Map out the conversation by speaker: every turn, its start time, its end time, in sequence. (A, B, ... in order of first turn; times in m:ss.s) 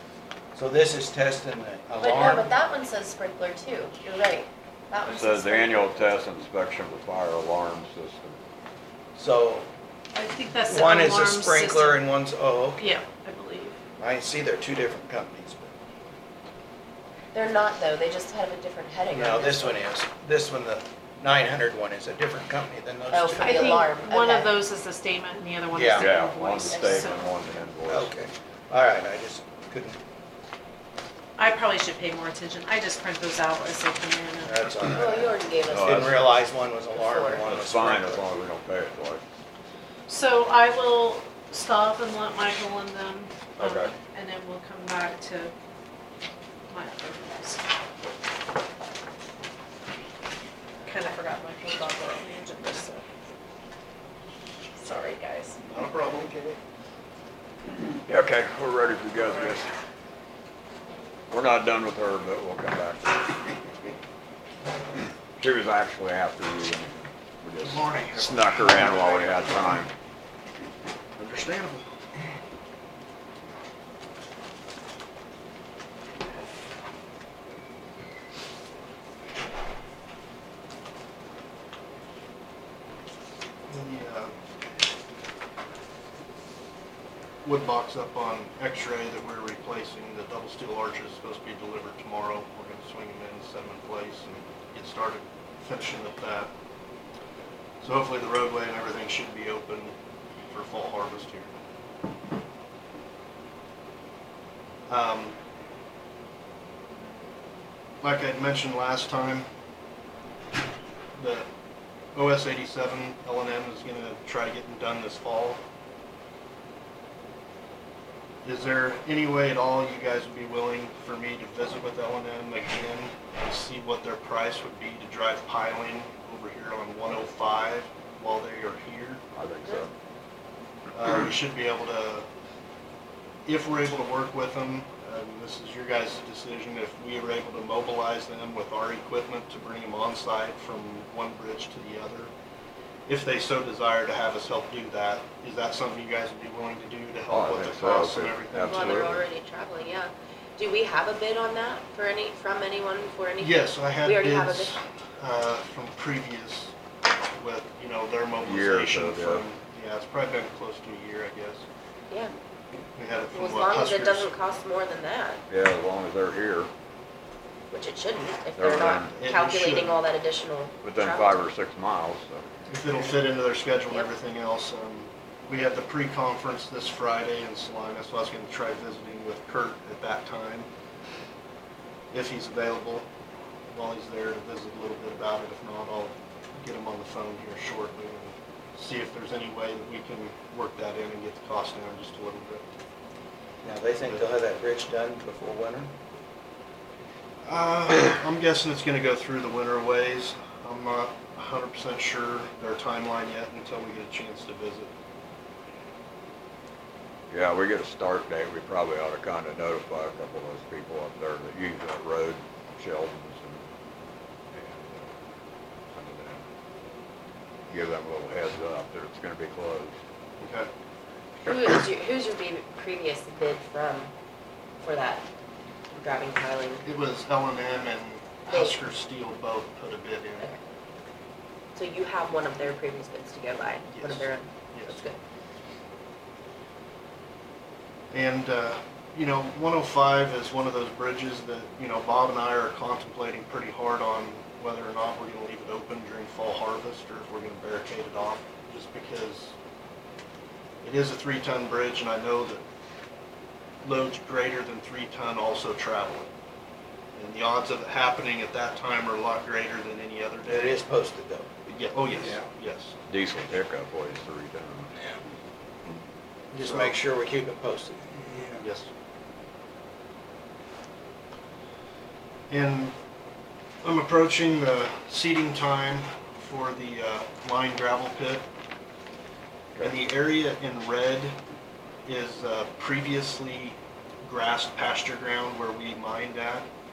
0:00.5-0:02.5 A
0:02.0-0:06.1 B
0:05.1-0:08.4 C
0:09.1-0:09.7 A
0:10.1-0:12.0 D
0:10.6-0:12.9 A
0:12.8-0:13.8 D
0:14.0-0:15.7 A
0:17.3-0:19.8 B
0:19.1-0:23.8 A
0:23.1-0:24.5 B
0:23.4-0:27.3 D
0:25.7-0:26.1 A
0:25.9-0:28.1 C
0:26.6-0:27.4 B
0:27.9-0:30.0 A
0:31.4-0:34.6 D
0:34.4-0:38.3 A
0:34.9-0:35.9 B
0:35.7-0:36.4 C
0:37.0-0:37.4 B
0:37.4-0:39.2 C
0:40.1-0:45.5 D
0:43.6-0:43.9 C
0:46.7-0:47.6 D
0:50.8-0:53.0 D
0:54.8-0:55.6 D
0:55.6-0:56.6 E
0:58.0-0:59.7 C
1:01.3-1:03.3 C
1:05.4-1:09.9 C
1:07.6-1:09.6 A
1:11.2-1:11.8 A
1:23.7-1:24.3 E
1:27.4-1:36.5 E
1:37.8-1:39.9 E
1:40.5-1:41.5 E
1:44.9-1:45.4 E
1:48.0-1:49.4 E
1:51.2-1:51.5 E
1:52.1-1:55.6 E
1:58.4-2:09.2 E
2:09.3-2:09.9 C
2:10.9-2:12.2 E
2:13.4-2:22.3 E
2:23.1-2:29.1 E
2:27.3-2:29.3 C
2:27.8-2:34.7 B
2:33.4-2:36.7 E
2:37.4-2:41.6 E
2:38.4-2:39.4 C
2:43.0-2:44.3 E
2:43.3-2:45.4 B
2:45.5-2:46.7 C
2:47.7-2:51.4 B
2:48.5-2:49.1 C
2:49.1-2:50.0 E
2:50.8-2:52.4 C
2:52.7-3:00.7 E
3:02.1-3:03.0 E
3:03.7-3:12.6 E
3:13.6-3:15.9 A
3:17.4-3:24.9 E
3:27.3-3:33.6 C
3:34.5-3:35.1 C
3:35.9-3:36.4 C
3:37.7-3:39.9 C
3:40.4-3:40.7 E
3:41.4-3:44.1 B
3:44.8-3:45.2 B
3:45.9-3:46.8 B
3:46.8-3:50.5 E
3:48.5-3:48.8 B
3:51.7-3:55.2 B
3:53.9-3:55.0 E
3:58.1-4:09.5 E
4:10.8-4:12.6 E
4:13.8-4:16.3 E
4:17.1-4:20.7 E
4:20.5-4:21.5 A
4:21.7-4:22.9 E
4:22.2-4:22.4 A
4:23.1-4:24.9 C
4:26.5-4:28.6 A
4:26.6-4:27.0 E
4:28.6-4:28.9 E
4:32.5-4:32.9 E
4:33.8-4:38.4 E
4:39.8-4:41.3 E
4:42.0-4:46.6 E